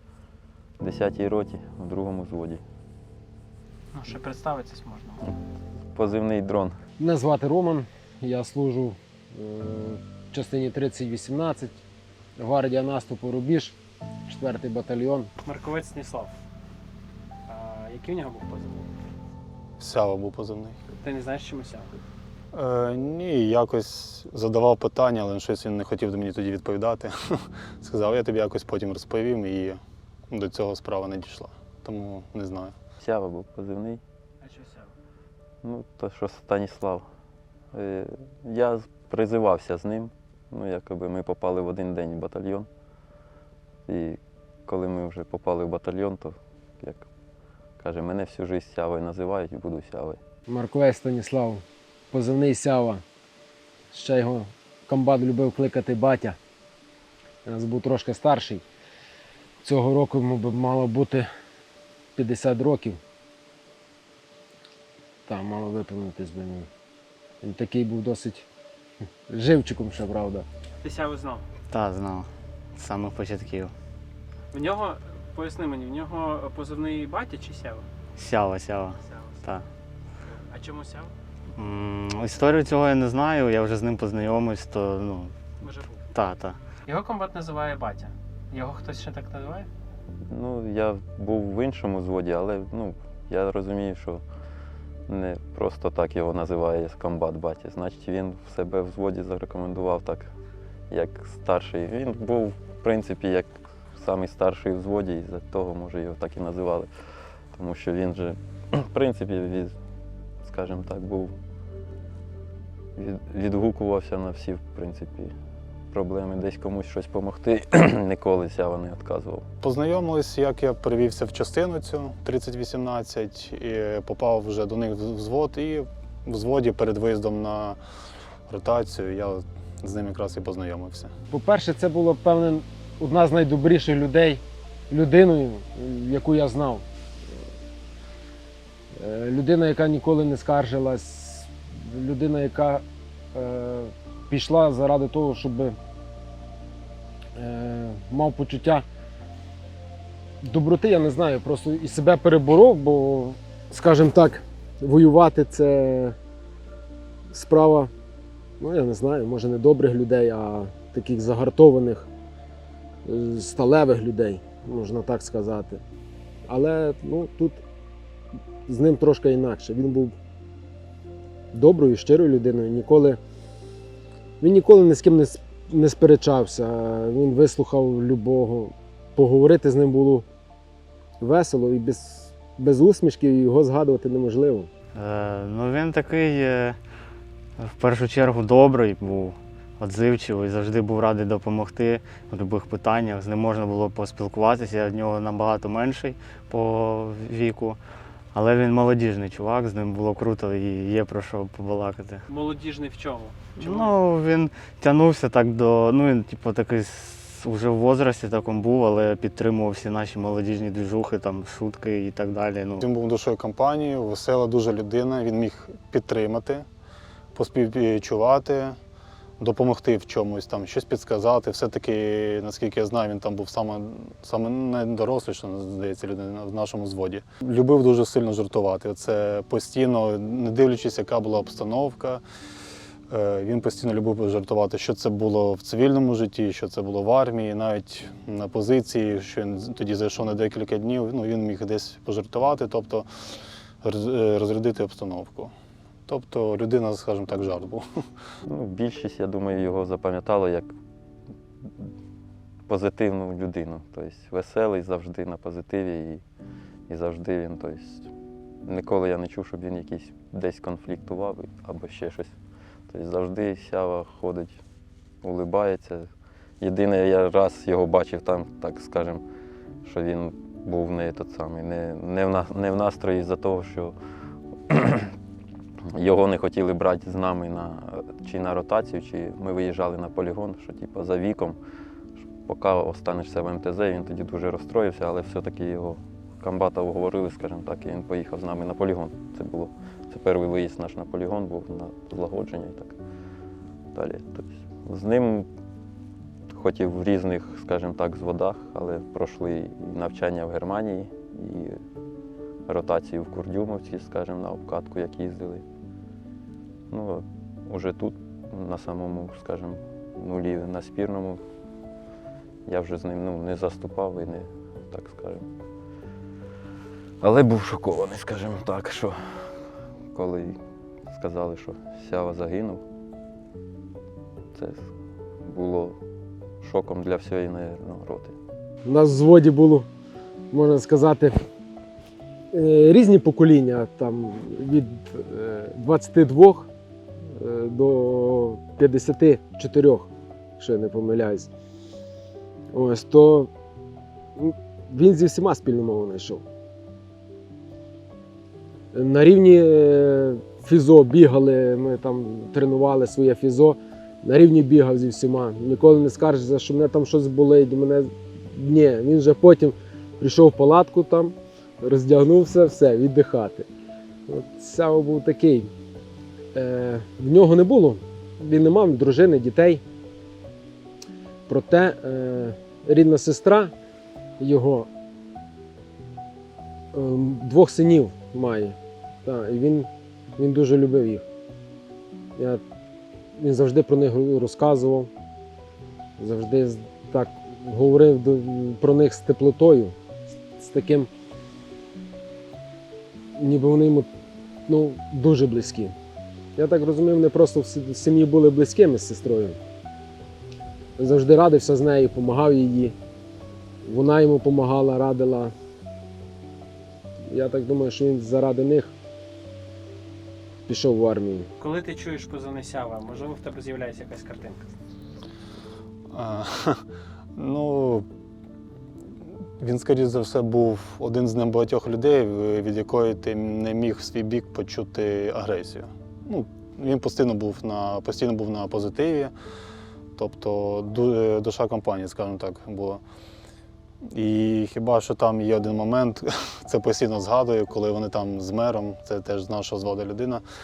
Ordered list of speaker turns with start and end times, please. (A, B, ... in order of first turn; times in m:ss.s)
0:00.8-0:02.6 A
0:03.9-0:05.3 B
0:05.9-0:06.8 A
0:07.0-0:11.8 C
0:12.4-0:15.3 C
0:15.4-0:16.3 B
0:17.5-0:18.9 B
0:19.8-0:20.8 D
0:21.0-0:21.9 B
0:22.5-0:32.7 D
0:33.0-0:34.0 A
0:34.4-0:34.9 B
0:35.6-0:37.0 A
0:37.7-0:42.7 A
0:43.9-0:47.0 A
0:47.8-0:50.2 A
0:50.5-0:53.0 C
0:53.9-0:56.4 C
0:57.4-0:58.6 C
0:59.6-1:01.3 C
1:02.2-1:03.0 C
1:05.3-1:06.7 C
1:07.4-1:08.5 C
1:09.3-1:10.5 C
1:10.8-1:11.4 B
1:11.7-1:13.7 E
1:14.5-1:17.8 B
1:18.2-1:19.6 E
1:19.0-1:19.4 B
1:20.2-1:21.1 B
1:21.6-1:25.4 E
1:25.6-1:26.0 B
1:26.1-1:26.6 E
1:26.8-1:29.7 B
1:30.2-1:34.2 A
1:35.1-1:40.3 A
1:40.9-1:46.9 A
1:47.5-1:49.7 A
1:50.4-1:51.3 A
1:53.0-1:55.3 A
1:55.9-1:59.4 A
1:59.6-2:07.8 D
2:08.5-2:11.1 D
2:11.3-2:16.8 C
2:18.9-2:25.8 C
2:27.4-2:28.8 C
2:30.4-2:36.2 C
2:37.3-2:37.9 C
2:38.6-2:42.1 C
2:43.0-2:45.8 C
2:46.5-2:47.6 C
2:48.7-2:50.1 C
2:51.5-2:53.2 C
2:54.4-3:00.2 C
3:01.2-3:04.7 C
3:04.9-3:06.8 E
3:07.6-3:17.8 E
3:18.3-3:22.2 E
3:22.3-3:23.9 B
3:23.6-3:32.8 E
3:32.8-3:36.6 D
3:37.3-3:38.8 D
3:39.4-3:52.2 D
3:53.1-4:03.0 D
4:03.8-4:05.5 D
4:06.1-4:07.8 D
4:08.5-4:10.7 A
4:12.7-4:16.2 A
4:16.9-4:18.1 A
4:18.6-4:22.3 A
4:22.9-4:24.6 A
4:25.2-4:26.1 A
4:26.6-4:29.2 A
4:29.8-4:33.9 A
4:34.7-4:35.1 A
4:35.9-4:41.6 A
4:42.4-4:53.0 A
4:53.9-4:55.5 A
4:56.5-5:01.8 A
5:02.7-5:05.6 A
5:06.9-5:11.4 A
5:12.7-5:15.4 A
5:17.2-5:19.6 A
5:20.1-5:20.6 A
5:21.1-5:22.8 A
5:24.5-5:24.9 A
5:25.4-5:26.0 A
5:26.6-5:28.3 A
5:28.8-5:29.9 C
5:30.5-5:31.4 C
5:32.5-5:36.7 C
5:37.3-5:41.5 C
5:42.7-5:43.5 C
5:44.4-5:46.4 C
5:48.9-6:03.7 C
6:04.3-6:05.7 C
6:06.5-6:09.8 C
6:11.5-6:13.7 C
6:14.4-6:14.9 C
6:16.9-6:21.2 C
6:22.4-6:22.6 C
6:23.4-6:25.1 C
6:26.2-6:30.0 C
6:30.6-6:31.1 C
6:33.4-6:34.1 C
6:34.7-6:35.9 C
6:36.6-6:39.6 C
6:41.0-6:42.9 C
6:43.8-6:45.5 C
6:47.3-6:48.9 C
6:50.7-6:51.5 C
6:51.6-6:54.7 B
6:56.1-6:58.0 D
6:59.6-7:09.3 D
7:10.2-7:13.0 D
7:14.0-7:20.4 D